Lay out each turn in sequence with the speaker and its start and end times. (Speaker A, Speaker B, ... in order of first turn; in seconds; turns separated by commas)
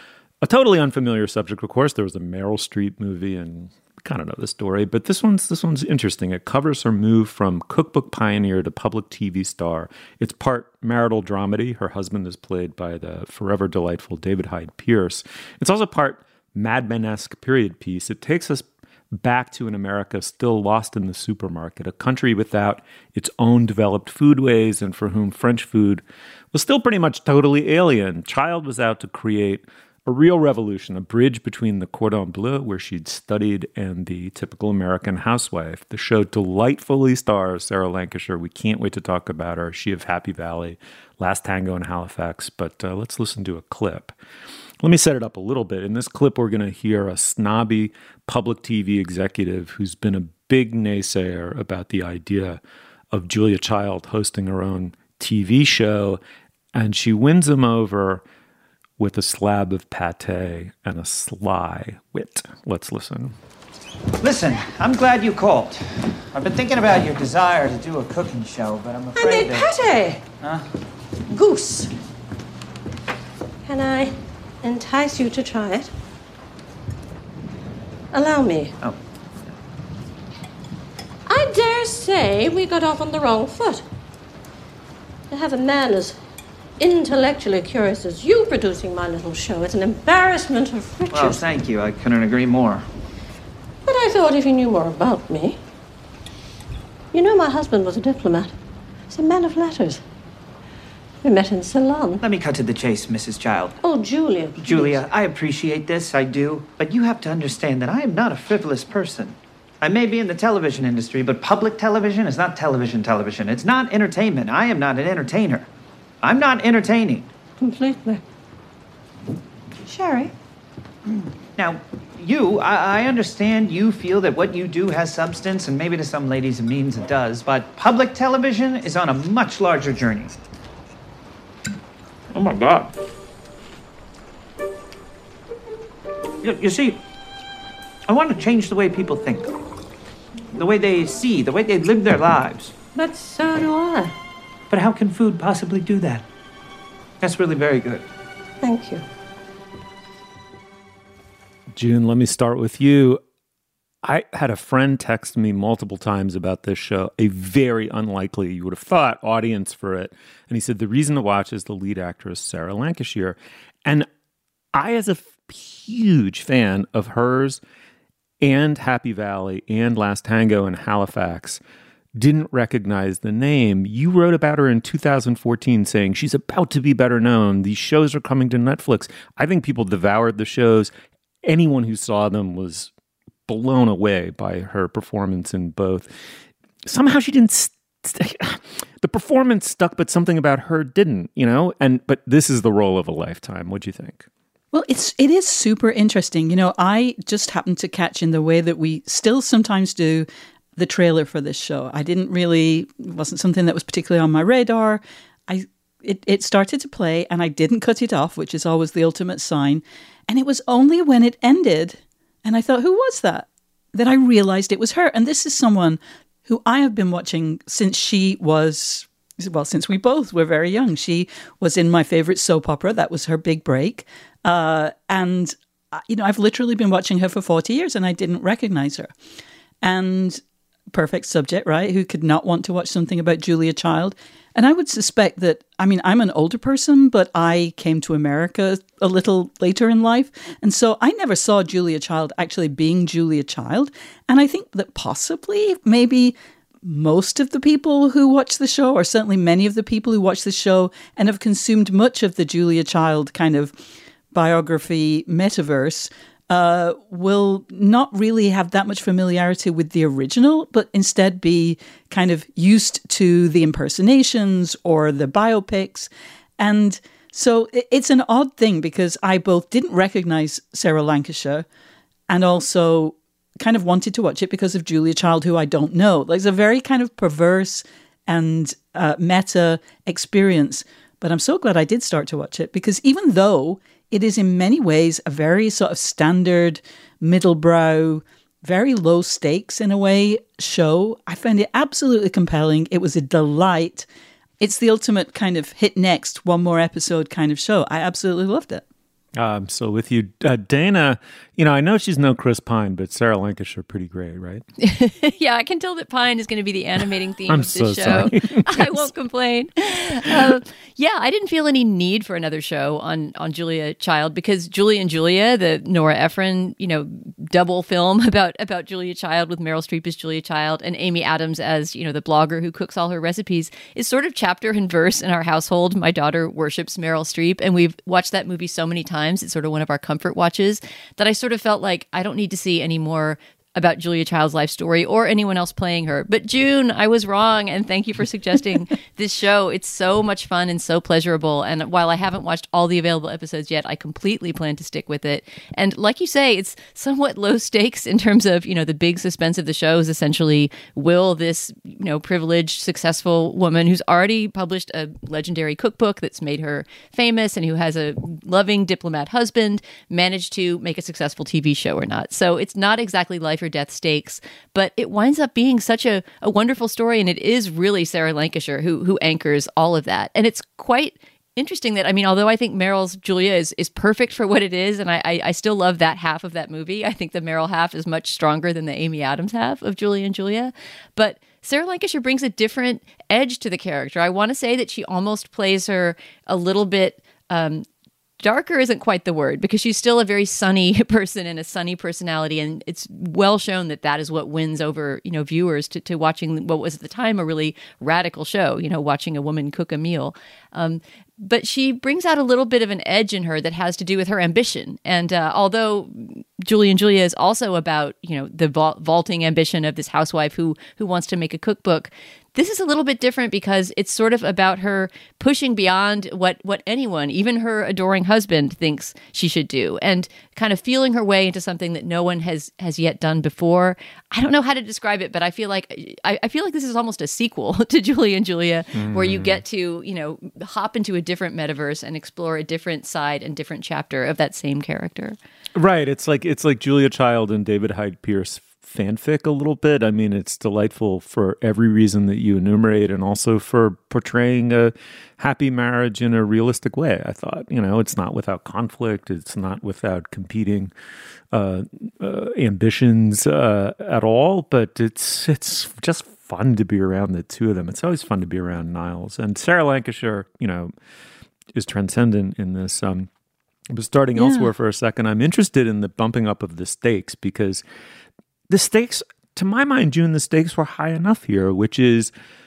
Speaker A: 0.4-44.1, Speaker A: 44.8-52.6, Speaker A: 53.1-56.2, Speaker A: 56.7-58.2, Speaker A: 59.0-63.3, Speaker B: 64.2-69.7, Speaker C: 69.1-70.2, Speaker C: 71.3-71.9, Speaker C: 73.6-75.9, Speaker C: 78.1-78.7, Speaker C: 81.3-83.8, Speaker C: 85.3-86.2, Speaker C: 86.8-91.4, Speaker B: 91.1-92.8, Speaker C: 93.8-95.6, Speaker C: 97.1-98.5, Speaker C: 99.1-100.0, Speaker C: 101.2-102.2, Speaker B: 102.2-103.8, Speaker C: 103.8-105.0, Speaker B: 104.5-115.7, Speaker B: 116.2-117.3, Speaker C: 117.6-118.2, Speaker B: 119.9-120.3, Speaker B: 121.5-130.4, Speaker B: 132.3-132.9, Speaker B: 136.4-137.0, Speaker B: 138.1-139.5, Speaker B: 140.5-142.8, Speaker C: 142.9-144.1, Speaker B: 144.7-146.2, Speaker B: 147.2-148.1, Speaker C: 148.6-149.0, Speaker A: 151.7-153.2, Speaker A: 154.0-164.1, Speaker A: 164.7-167.6, Speaker A: 168.4-171.6, Speaker A: 172.2-180.9, Speaker A: 181.4-182.9, Speaker A: 183.5-186.2, Speaker A: 186.8-194.2, Speaker D: 194.7-229.1, Speaker D: 229.8-230.4, Speaker D: 230.9-253.7, Speaker D: 254.3-271.6, Speaker D: 272.3-294.1, Speaker D: 294.6-298.8, Speaker A: 299.4-304.6, Speaker E: 304.8-387.8, Speaker A: 307.5-309.1, Speaker E: 388.4-435.4, Speaker A: 428.9-429.6, Speaker A: 435.7-450.9, Speaker A: 451.5-460.9, Speaker A: 461.7-463.3, Speaker A: 463.9-467.8, Speaker D: 464.4-464.7, Speaker A: 468.7-472.3